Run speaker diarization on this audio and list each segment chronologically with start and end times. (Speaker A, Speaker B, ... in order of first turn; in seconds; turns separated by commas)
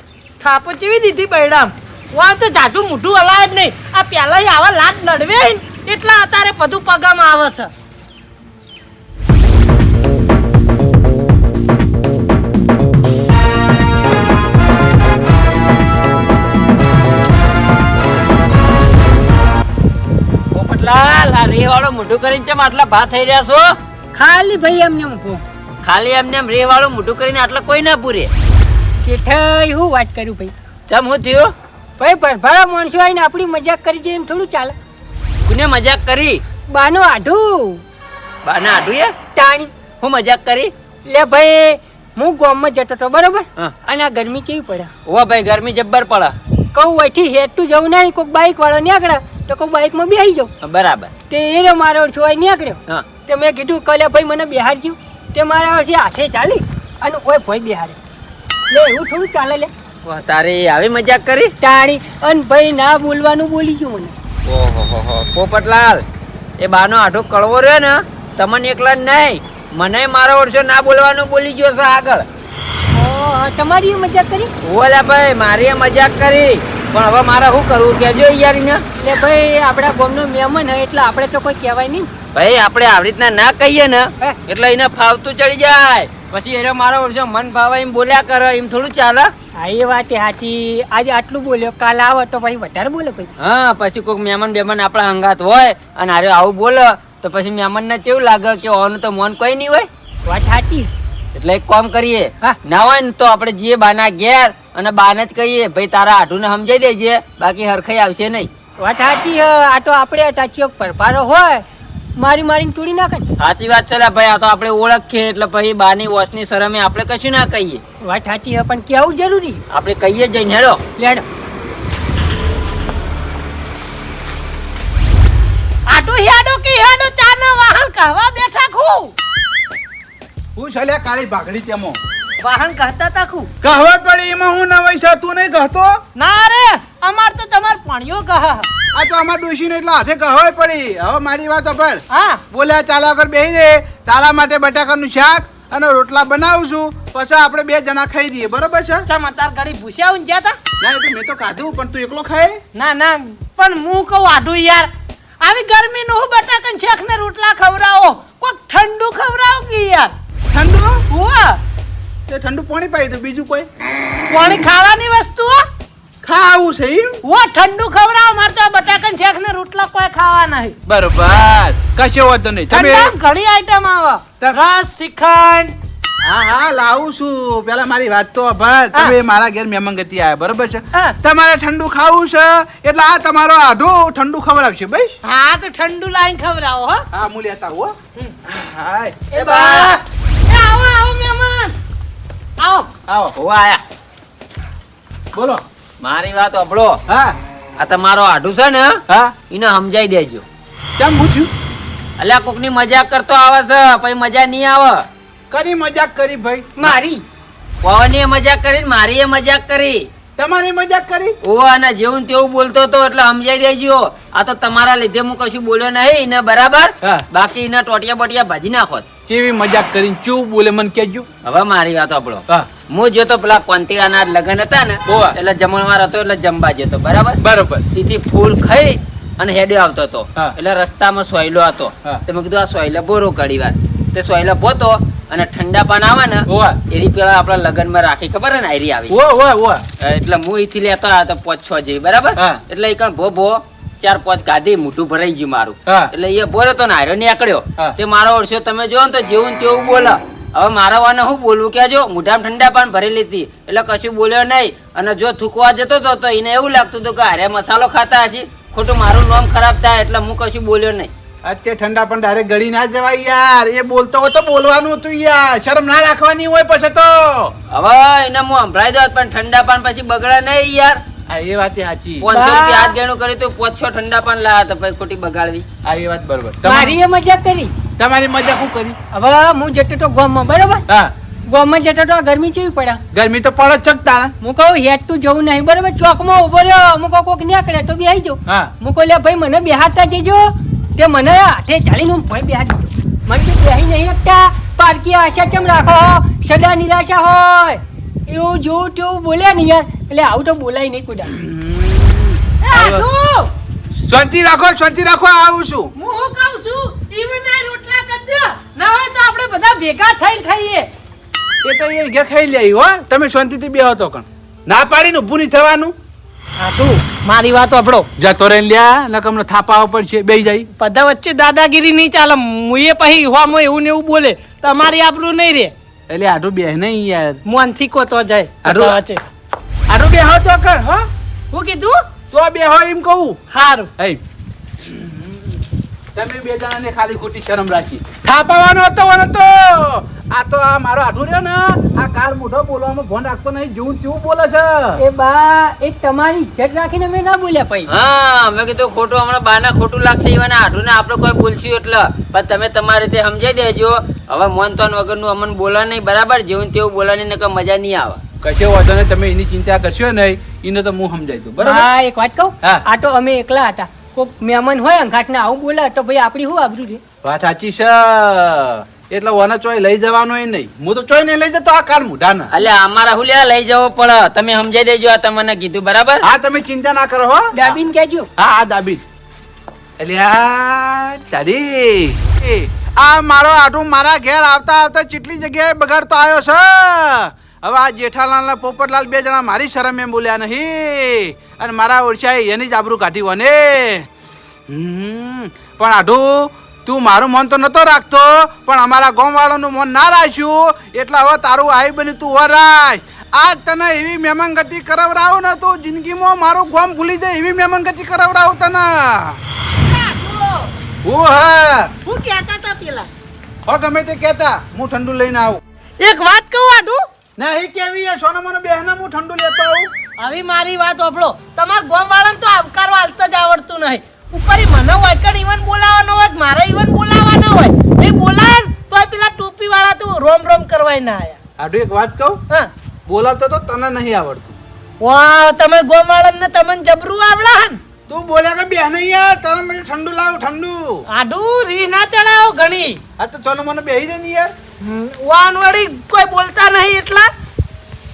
Speaker A: 0.4-7.7, Speaker B: 20.5-23.7, Speaker C: 24.1-25.4, Speaker B: 25.8-28.3, Speaker C: 29.0-30.5, Speaker B: 30.9-31.5, Speaker C: 32.0-34.8, Speaker B: 35.5-36.4, Speaker C: 36.7-37.8, Speaker B: 38.4-39.1, Speaker C: 39.4-39.7, Speaker B: 40.0-40.7, Speaker C: 41.1-44.9, Speaker B: 45.1-46.4, Speaker C: 46.7-50.5, Speaker B: 50.6-51.1, Speaker C: 51.3-58.0, Speaker C: 58.7-59.7, Speaker B: 60.0-61.5, Speaker C: 61.6-64.2, Speaker B: 64.5-66.0, Speaker B: 66.6-72.3, Speaker C: 72.9-74.5, Speaker B: 74.6-78.8, Speaker C: 79.0-82.1, Speaker B: 82.3-89.3, Speaker C: 89.6-93.3, Speaker B: 93.4-99.9, Speaker C: 100.3-100.9, Speaker B: 101.3-108.5, Speaker C: 108.8-111.7, Speaker C: 112.2-113.3, Speaker B: 113.4-117.8, Speaker C: 118.0-119.6, Speaker B: 119.7-120.8, Speaker C: 121.0-121.2, Speaker A: 125.9-129.1, Speaker D: 130.6-132.0, Speaker A: 132.4-133.5, Speaker D: 133.6-135.9, Speaker A: 136.2-138.7, Speaker D: 138.9-149.1, Speaker A: 142.1-142.4, Speaker A: 149.1-150.6, Speaker D: 150.8-152.6, Speaker A: 152.8-154.9, Speaker A: 155.4-160.1, Speaker D: 160.5-161.0, Speaker A: 161.1-161.6, Speaker D: 162.3-163.7, Speaker A: 164.3-165.6, Speaker D: 166.2-167.2, Speaker A: 167.2-170.8, Speaker D: 170.9-173.1, Speaker A: 172.7-175.8, Speaker D: 176.2-185.2, Speaker A: 185.2-187.0, Speaker D: 187.1-187.9, Speaker D: 188.4-189.2, Speaker A: 189.3-191.7, Speaker C: 189.3-189.9, Speaker A: 192.6-192.9, Speaker D: 193.1-193.4, Speaker B: 193.4-193.8, Speaker D: 195.3-195.6, Speaker B: 196.0-197.0, Speaker D: 197.1-197.3, Speaker B: 197.8-199.0, Speaker D: 199.1-199.3, Speaker B: 199.5-200.4, Speaker D: 201.0-201.5, Speaker B: 202.2-205.1, Speaker D: 205.5-207.0, Speaker C: 206.8-207.2, Speaker B: 207.8-210.0, Speaker D: 210.4-211.4, Speaker B: 211.4-219.1, Speaker D: 219.3-221.3, Speaker B: 221.4-227.4, Speaker D: 225.1-225.4, Speaker D: 227.4-227.9, Speaker B: 227.9-239.2, Speaker D: 236.5-236.8, Speaker D: 239.1-239.8, Speaker B: 240.0-261.1, Speaker D: 245.9-246.1, Speaker D: 261.4-267.5, Speaker B: 267.7-271.0, Speaker D: 271.3-272.3, Speaker B: 272.2-275.6, Speaker C: 272.3-272.9, Speaker D: 275.9-277.0, Speaker C: 276.6-277.7, Speaker D: 278.0-279.0, Speaker C: 279.1-280.8, Speaker C: 281.5-283.0, Speaker D: 283.1-284.3, Speaker C: 284.4-301.3, Speaker D: 301.3-303.1, Speaker A: 302.6-303.5, Speaker D: 304.1-305.9, Speaker A: 306.0-310.9, Speaker D: 311.6-315.9, Speaker A: 316.6-318.1, Speaker D: 318.2-320.7, Speaker A: 320.8-325.7, Speaker D: 326.1-327.4, Speaker A: 327.5-329.2, Speaker D: 328.6-329.0, Speaker D: 329.9-331.1, Speaker A: 331.5-332.0, Speaker D: 332.3-333.4, Speaker A: 333.5-333.9, Speaker D: 334.8-335.6, Speaker D: 336.1-345.0, Speaker C: 345.0-347.9, Speaker B: 347.9-358.2, Speaker D: 358.4-361.9, Speaker C: 361.6-367.0, Speaker D: 367.2-372.5, Speaker B: 372.5-376.2, Speaker D: 376.2-377.5, Speaker C: 377.5-378.3, Speaker D: 378.4-379.0, Speaker D: 380.0-394.1, Speaker D: 394.7-409.4, Speaker A: 409.8-410.7, Speaker D: 411.1-411.9, Speaker A: 412.1-413.1, Speaker D: 413.7-415.6, Speaker A: 416.0-417.0, Speaker D: 417.4-419.9, Speaker A: 420.2-431.4, Speaker D: 431.6-432.4, Speaker D: 433.1-434.6, Speaker A: 435.0-437.8, Speaker D: 438.1-441.0, Speaker A: 441.1-443.0, Speaker D: 443.2-444.5, Speaker A: 444.8-447.3